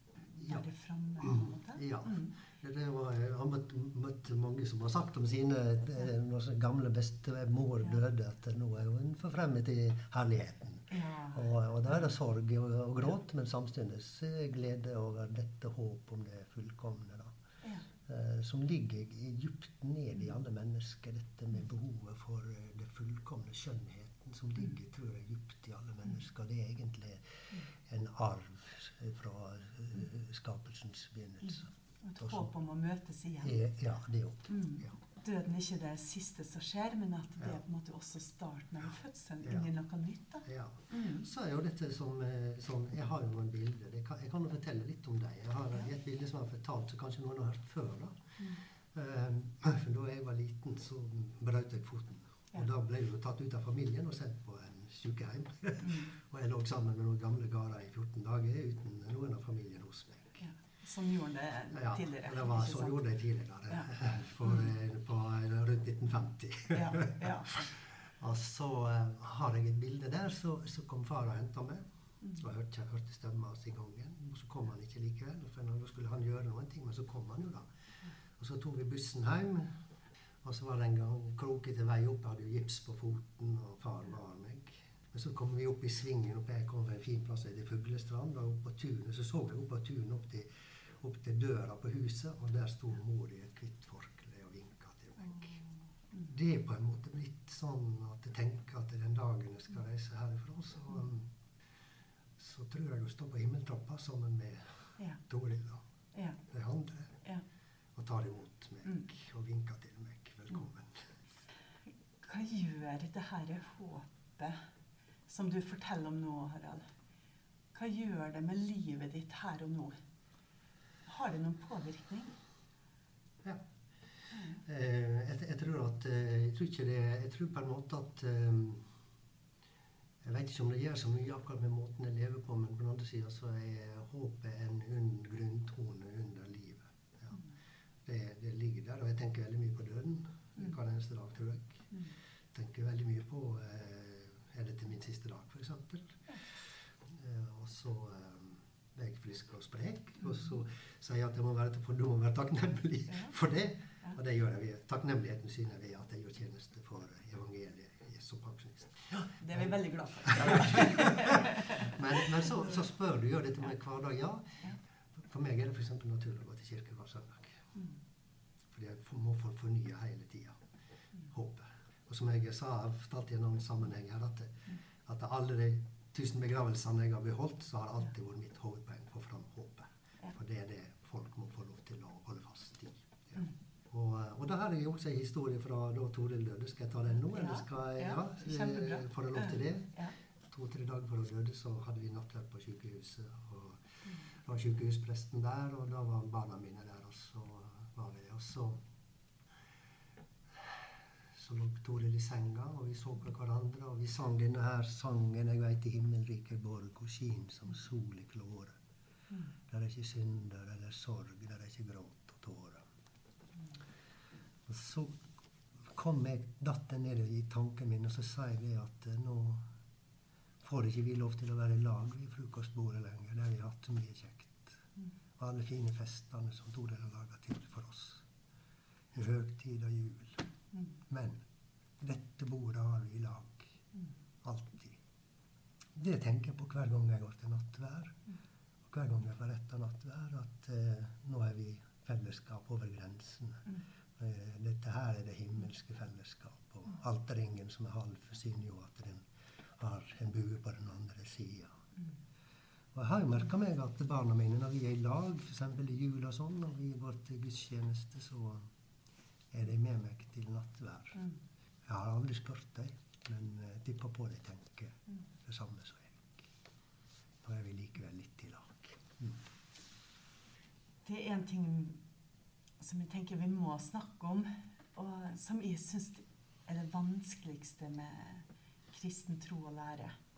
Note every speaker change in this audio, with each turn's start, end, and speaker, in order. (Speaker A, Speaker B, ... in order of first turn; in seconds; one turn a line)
Speaker A: 0.3-2.4
Speaker B: 1.2-17.3
Speaker A: 10.9-11.4
Speaker B: 18.0-32.5
Speaker A: 32.0-33.6
Speaker B: 33.4-35.0
Speaker A: 34.5-41.2
Speaker B: 40.5-60.5
Speaker A: 60.4-63.0
Speaker B: 61.7-77.7
Speaker A: 66.7-67.6
Speaker B: 78.3-79.8
Speaker B: 80.4-95.5
Speaker B: 96.2-101.3
Speaker B: 102.4-105.8
Speaker A: 106.1-106.4
Speaker B: 106.5-107.2
Speaker B: 108.0-111.1
Speaker A: 112.2-114.6
Speaker A: 115.3-116.9
Speaker A: 117.7-120.0
Speaker A: 121.1-122.3
Speaker A: 124.3-124.6
Speaker B: 124.6-128.9
Speaker B: 130.2-137.4
Speaker B: 138.1-141.9
Speaker B: 142.5-159.7
Speaker A: 159.4-161.9
Speaker B: 160.3-167.6
Speaker B: 168.7-170.6
Speaker B: 171.3-198.8
Speaker A: 187.3-190.1
Speaker B: 200.5-208.8
Speaker B: 209.7-212.8
Speaker B: 214.7-215.2
Speaker B: 215.8-219.7
Speaker B: 220.6-224.8
Speaker B: 225.4-228.2
Speaker B: 229.1-230.5
Speaker B: 231.1-231.4
Speaker B: 232.0-233.8
Speaker B: 234.4-235.0
Speaker B: 235.9-238.2
Speaker B: 238.8-251.8
Speaker B: 252.9-258.7
Speaker B: 259.5-261.2
Speaker B: 261.9-266.5
Speaker B: 267.4-269.4
Speaker A: 271.1-272.0
Speaker A: 272.8-280.1